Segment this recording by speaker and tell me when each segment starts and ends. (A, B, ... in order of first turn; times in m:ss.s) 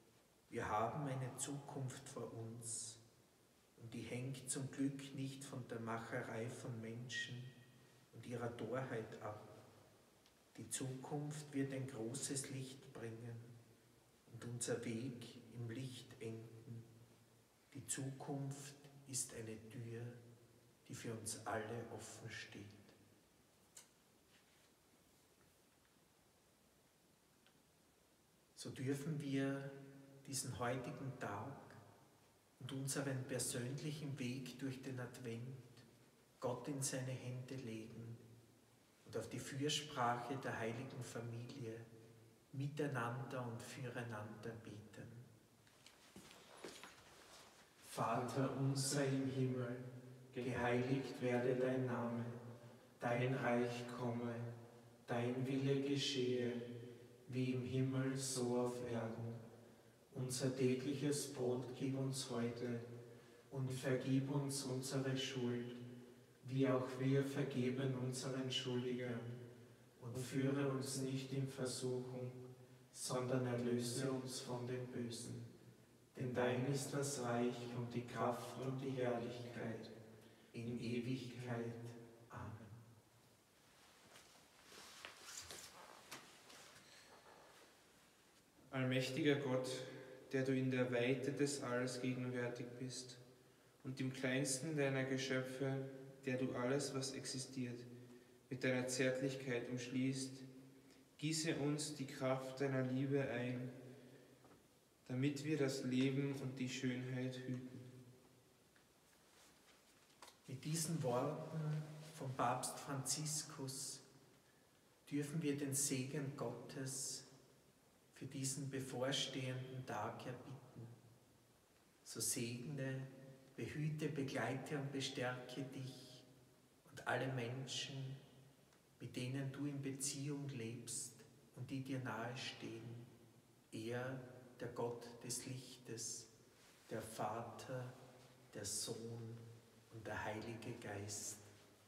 0:00.5-0:03.0 A
0:03.8-0:07.5 A
0:08.1-0:09.5 A
0:10.5-0:13.6 A
0:14.3-0:16.9 A
0:17.7-0:20.2 A
0:20.8-0:23.0 A
0:28.6-0:31.8 A
0:32.6-0:35.9 A
0:36.4-0:38.2 A
0:39.0-0:41.9 A
0:42.5-0:45.3 A
0:47.8-0:52.4 A
0:50.3-0:50.6 B
0:53.0-0:54.5 A
0:55.1-0:56.7 A
0:57.2-0:59.4 A
1:00.1-1:02.9 A
1:03.5-1:05.8 A
1:06.4-1:09.4 A
1:10.0-1:12.4 A
1:10.1-1:10.9 B
1:12.9-1:15.5 A
1:16.1-1:19.9 A
1:20.5-1:22.8 A
1:28.7-1:33.2 B
1:33.8-1:37.9 B
1:38.5-1:40.5 B
1:41.2-1:43.7 B
1:45.1-1:47.9 B
1:50.5-1:54.0 A
1:55.1-1:57.3 A
1:58.1-2:01.0 A
2:02.0-2:06.3 A
2:06.8-2:08.2 A
2:09.0-2:13.1 A
2:13.7-2:16.3 A
2:16.9-2:18.0 A
2:18.5-2:21.4 A